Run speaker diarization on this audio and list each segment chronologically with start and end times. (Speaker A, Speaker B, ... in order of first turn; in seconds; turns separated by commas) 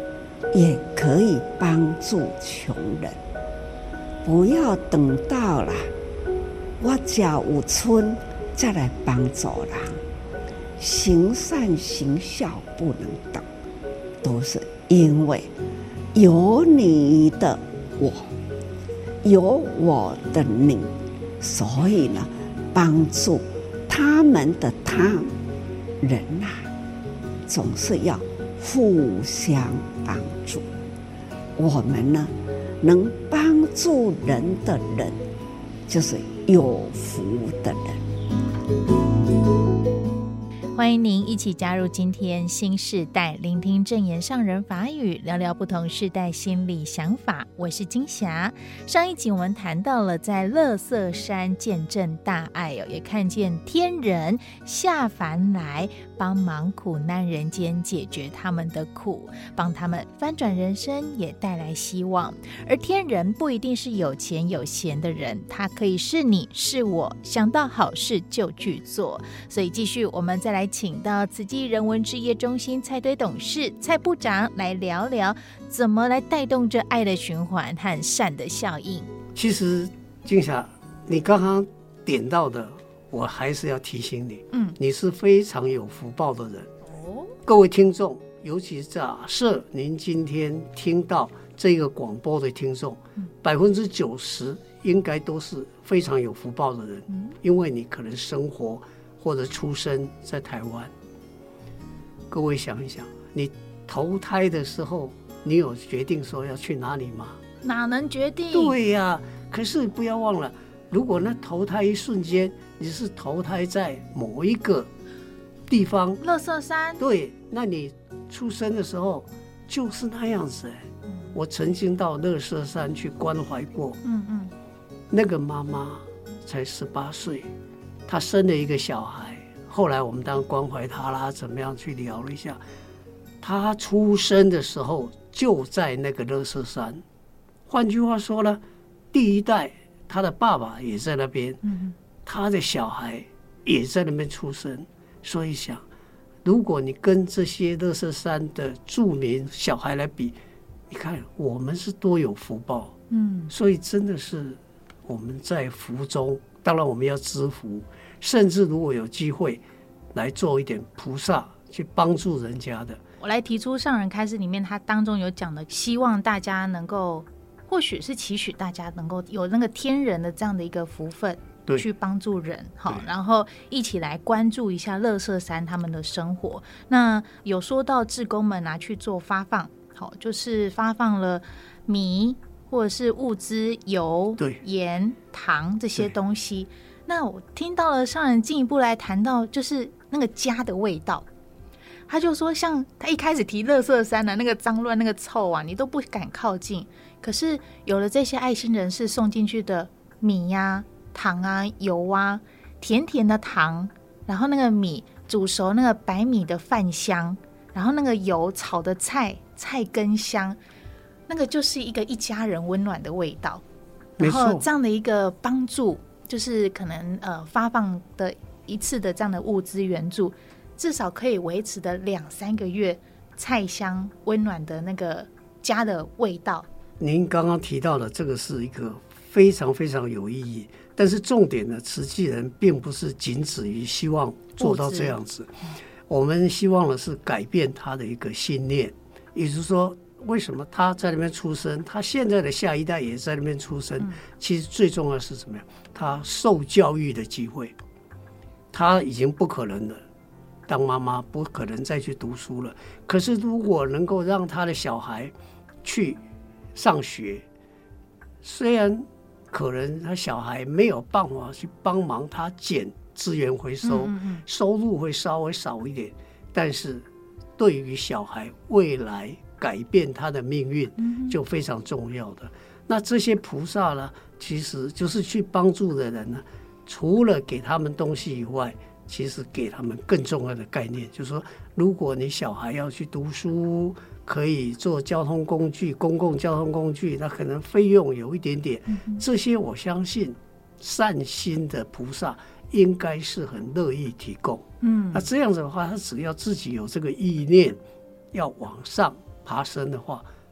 Speaker A: 0.5-3.2, Speaker A: 4.2-5.9, Speaker A: 6.8-10.0, Speaker A: 10.8-13.5, Speaker A: 14.2-15.5, Speaker A: 16.1-18.3, Speaker A: 19.2-25.3, Speaker A: 26.0-26.7, Speaker A: 27.5-30.7, Speaker A: 31.6-35.2, Speaker A: 35.9-38.0, Speaker B: 40.8-79.1, Speaker C: 79.3-86.7, Speaker B: 84.5-84.8, Speaker B: 87.0-87.3, Speaker C: 87.5-100.9, Speaker C: 102.3-107.4, Speaker B: 107.6-108.8, Speaker C: 108.5-114.9, Speaker C: 115.7-116.2, Speaker B: 116.2-117.0, Speaker C: 117.0-124.0, Speaker B: 124.0-124.5, Speaker C: 125.1-127.5, Speaker C: 128.1-132.6, Speaker C: 133.4-137.0, Speaker C: 137.7-138.6, Speaker C: 139.1-141.6, Speaker B: 141.7-141.9, Speaker C: 142.2-145.8, Speaker C: 146.4-150.4, Speaker C: 150.9-152.9, Speaker B: 153.1-153.5, Speaker C: 153.5-159.6, Speaker C: 160.1-163.0, Speaker B: 163.2-191.3, Speaker B: 192.1-210.6, Speaker B: 211.3-213.6, Speaker C: 214.2-214.7, Speaker B: 214.2-226.7, Speaker C: 227.0-235.5, Speaker B: 234.6-235.2, Speaker C: 236.1-247.8, Speaker C: 248.7-250.0, Speaker C: 250.7-256.2, Speaker C: 256.8-257.4, Speaker C: 258.4-267.1, Speaker B: 263.8-264.4, Speaker C: 267.6-297.8, Speaker B: 271.0-271.4, Speaker B: 294.8-295.3, Speaker C: 298.3-300.3